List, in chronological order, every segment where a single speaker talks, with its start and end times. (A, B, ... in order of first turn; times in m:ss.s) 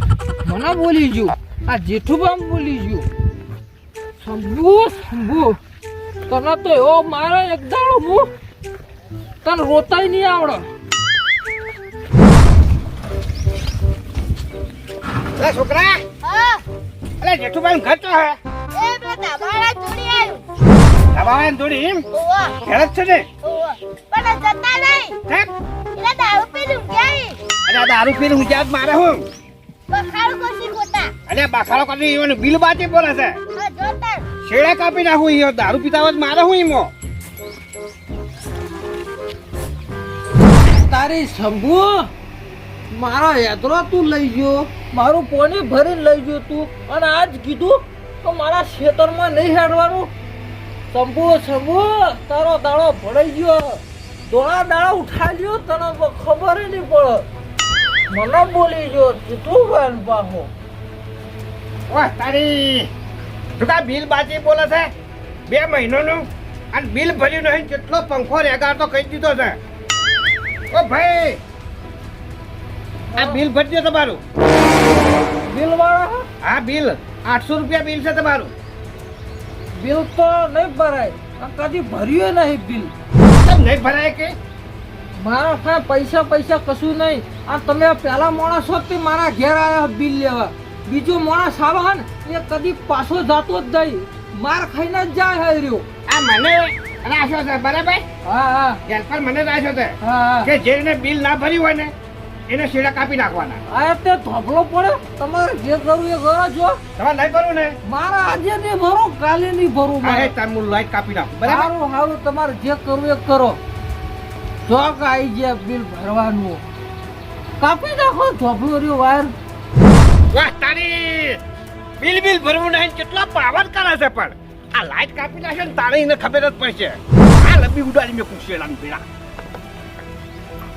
0:00.4-0:03.0 A
0:04.2-0:05.6 A
0:06.3-0:08.3 A
0:09.4-0:10.6 A
0:15.4-0:16.0 B
0:16.2-0:16.6 C
0:17.2-0:18.4 B
0:18.7-0:20.4 C
0:21.1-0:22.0 B
0:22.1-0:22.6 C
0:22.6-0:23.3 B
0:23.4-0:25.2 C
0:26.0-0:27.4 C
0:27.6-0:29.2 B
0:29.9-0:31.1 C
0:31.3-0:33.4 B
0:33.5-0:34.3 C
0:34.4-0:36.9 B
0:40.6-0:42.1 A
0:42.9-0:50.1 A
0:50.9-0:57.2 A
0:58.1-1:00.5 A
1:01.9-1:02.9 B
1:03.6-1:04.9 B
1:05.5-1:09.6 B
1:10.7-1:11.4 B
1:13.1-1:13.4 A
1:13.2-1:14.2 B
1:15.4-1:16.2 A
1:16.4-1:18.5 B
1:19.8-1:22.9 A
1:23.4-1:24.3 B
1:25.2-1:35.8 A
1:36.1-1:38.0 B
1:38.2-1:38.8 A
1:38.8-1:41.9 B
1:40.0-1:40.5 A
1:42.5-1:43.6 B
1:43.7-1:46.8 A
1:47.0-1:47.8 B
1:47.8-1:50.3 A
1:50.0-1:51.7 B
1:51.4-1:53.6 A
1:54.6-1:56.6 A
1:57.6-1:59.3 A
2:00.3-2:01.4 B
2:02.0-2:09.0 B